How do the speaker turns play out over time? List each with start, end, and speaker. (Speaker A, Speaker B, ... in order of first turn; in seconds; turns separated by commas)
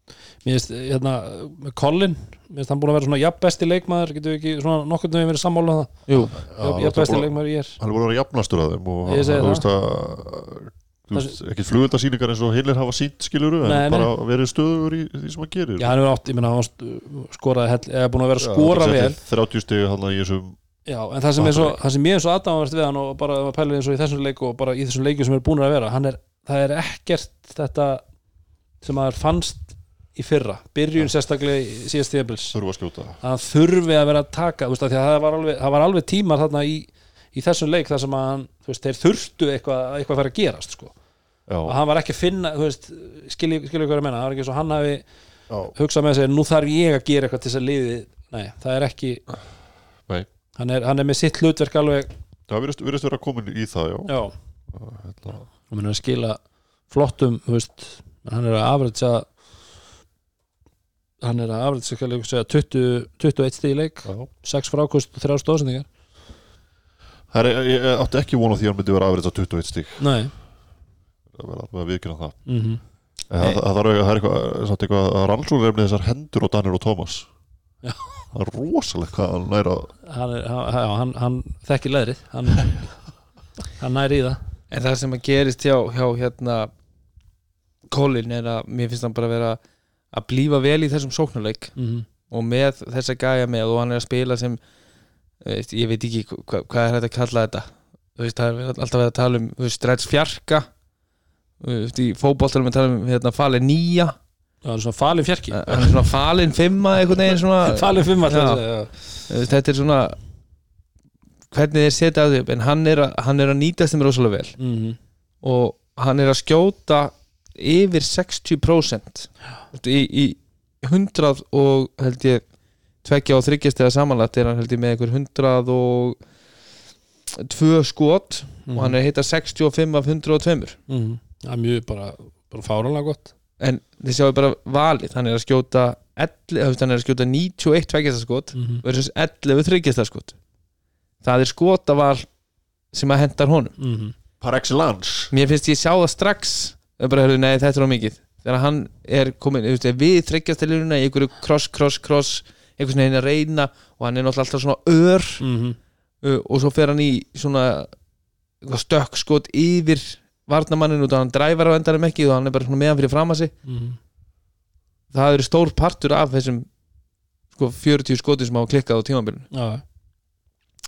Speaker A: 0.4-7.8, Speaker B: 6.1-6.3, Speaker C: 6.4-15.9, Speaker A: 9.1-9.7, Speaker A: 13.6-14.1, Speaker A: 15.8-19.2, Speaker C: 18.4-20.6, Speaker A: 20.9-28.0, Speaker C: 21.4-21.8, Speaker A: 28.8-32.6, Speaker C: 32.5-33.2, Speaker A: 33.2-40.9, Speaker C: 41.5-41.8, Speaker A: 41.7-45.1, Speaker A: 45.7-49.2, Speaker A: 50.6-52.1, Speaker C: 52.5-54.1, Speaker A: 54.1-54.3, Speaker C: 54.7-55.5, Speaker A: 55.7-59.3, Speaker A: 61.2-65.9, Speaker C: 67.3-70.2, Speaker A: 70.0-70.3, Speaker C: 71.3-72.5, Speaker A: 72.5-72.8, Speaker C: 73.3-77.3, Speaker A: 77.8-78.2, Speaker C: 78.3-79.9, Speaker A: 80.1-82.9, Speaker A: 83.8-84.4, Speaker B: 84.7-86.7, Speaker B: 87.9-89.6, Speaker B: 90.1-91.8, Speaker A: 91.8-92.1, Speaker B: 92.3-94.6, Speaker B: 95.4-100.7, Speaker B: 101.6-104.2, Speaker A: 104.6-106.1, Speaker B: 105.5-108.6, Speaker A: 107.7-109.0, Speaker B: 109.2-110.2, Speaker B: 111.5-114.6, Speaker A: 114.6-115.0, Speaker B: 115.4-122.4, Speaker B: 123.0-126.2, Speaker B: 127.4-130.8, Speaker A: 128.7-129.0, Speaker A: 130.9-133.3, Speaker B: 133.6-140.3, Speaker A: 138.6-138.8, Speaker B: 141.2-142.3, Speaker B: 142.9-143.7, Speaker A: 143.8-144.1, Speaker C: 144.4-145.3, Speaker B: 145.3-155.4, Speaker A: 155.4-155.8, Speaker B: 156.2-157.9, Speaker B: 158.6-163.5, Speaker A: 163.7-164.0, Speaker B: 165.1-166.7, Speaker B: 167.5-169.5, Speaker A: 169.5-169.8